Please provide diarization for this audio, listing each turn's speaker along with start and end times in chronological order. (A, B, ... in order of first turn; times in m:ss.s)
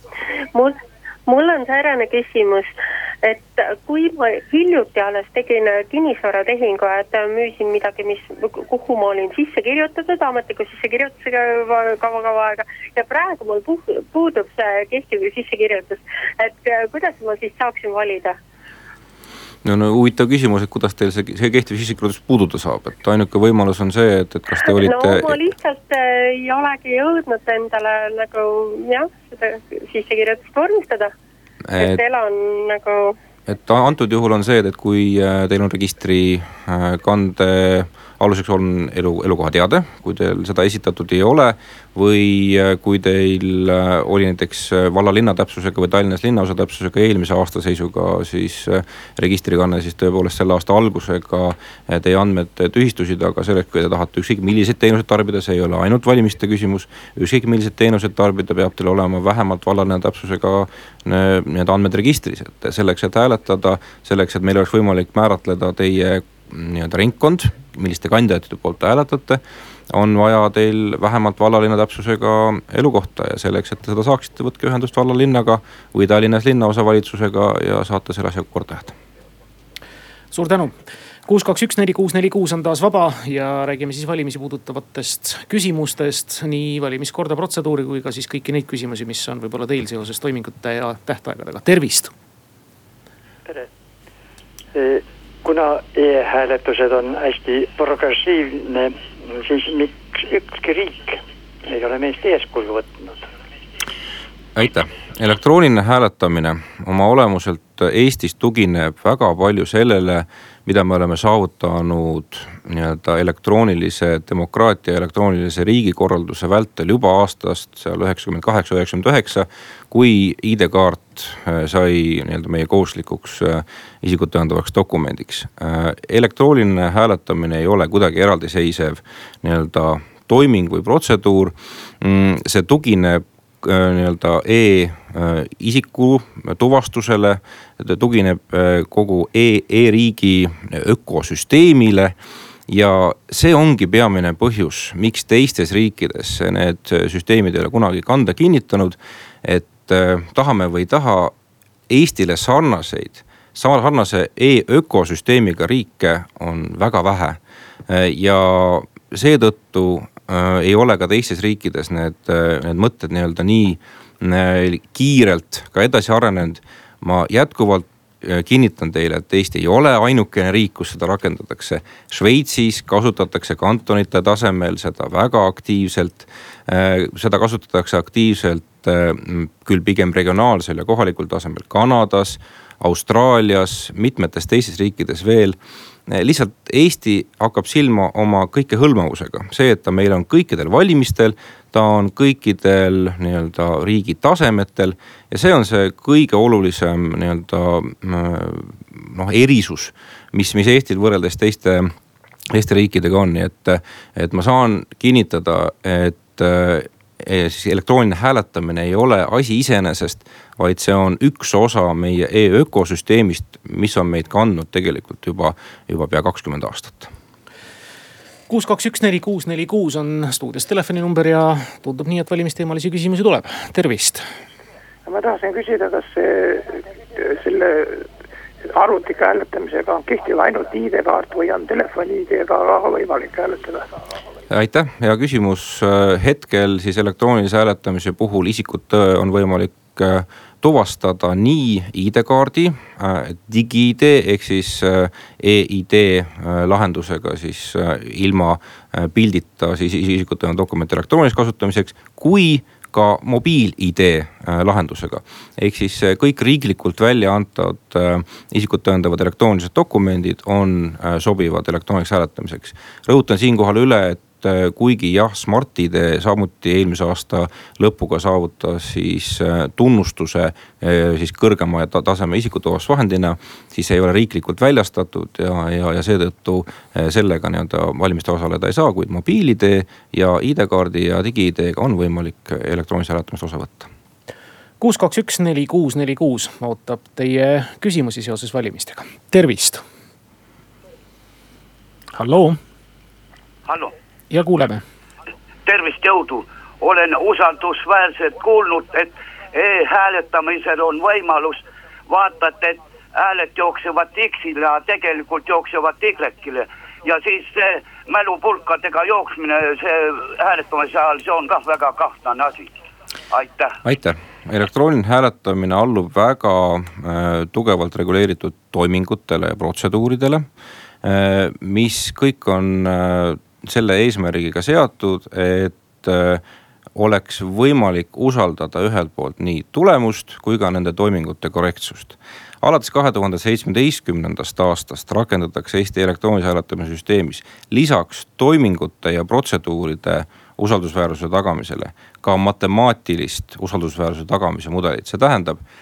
0:00.5-0:18.4 A
0:19.6-0:25.4 B
0:24.6-0:31.1 A
0:31.7-0:32.0 B
0:31.8-0:33.2 A
0:33.5-1:19.0 B
1:20.3-1:20.7 C
1:21.3-1:32.1 C
1:34.7-1:43.2 D
1:44.6-2:22.2 B
2:22.7-2:31.3 B
2:31.9-3:05.6 B
3:06.1-3:21.9 B
3:22.5-3:37.1 B
3:38.5-3:44.2 C
3:45.1-3:48.1 E
3:48.7-3:53.9 E
3:54.5-4:43.9 B
4:44.8-4:49.8 C
4:52.1-4:52.6 C
4:53.7-4:53.9 F
4:54.3-4:54.8 C
4:55.6-5:12.7 F
5:13.3-5:13.8 F
5:13.8-5:20.5 B
5:21.0-5:26.4 B
5:27.0-5:45.6 B